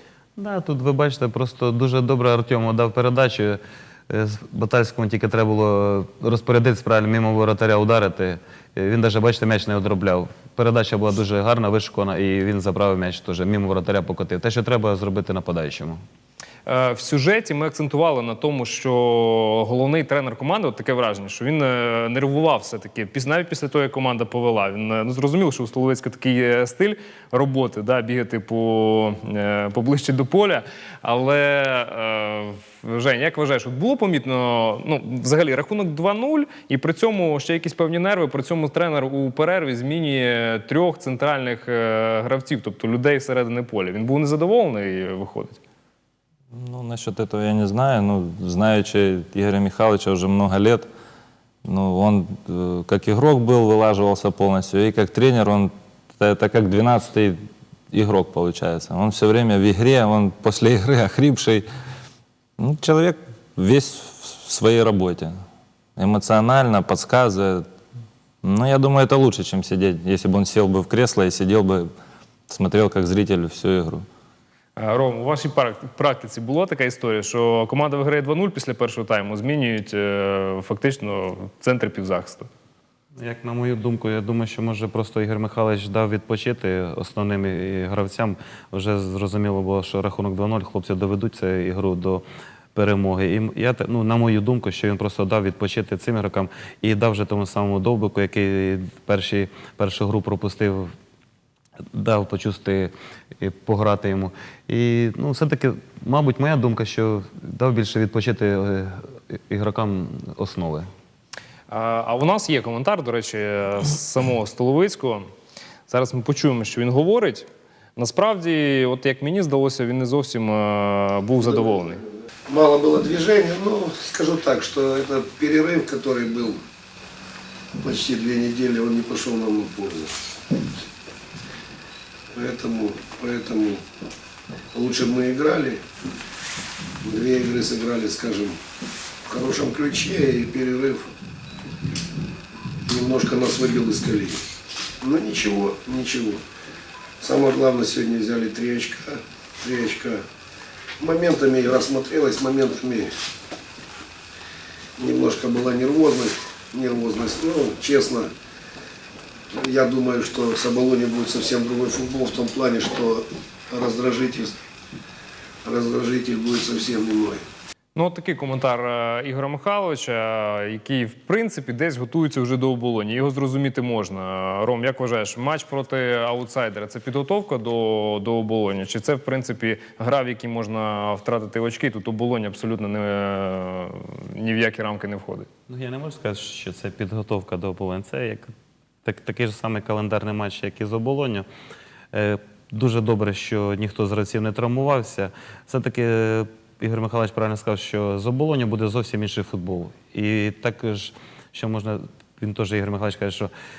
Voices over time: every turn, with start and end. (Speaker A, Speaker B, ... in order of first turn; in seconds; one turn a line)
Speaker A: 0.4-16.0
Speaker B: 16.7-45.6
Speaker C: 46.5-50.9
Speaker C: 51.6-61.6
Speaker C: 62.6-65.3
Speaker C: 66.0-67.7
Speaker C: 68.4-71.9
Speaker C: 72.5-74.1
Speaker B: 74.8-82.5
Speaker A: 83.2-92.2
Speaker A: 92.8-100.9
Speaker A: 101.9-110.9
Speaker B: 111.7-115.3
Speaker B: 115.9-122.0
Speaker D: 122.5-126.6
Speaker D: 127.8-130.2
Speaker D: 132.3-133.8
Speaker D: 134.7-135.8
Speaker D: 137.0-138.6
Speaker D: 139.3-141.1
Speaker D: 142.9-144.4
Speaker D: 145.0-146.4
Speaker D: 147.2-150.2
Speaker D: 151.0-153.1
Speaker D: 155.0-158.3
Speaker D: 159.5-164.6
Speaker D: 165.6-167.4
Speaker B: 168.0-185.5
Speaker A: 185.7-188.5
Speaker A: 189.0-191.5
Speaker A: 192.1-203.5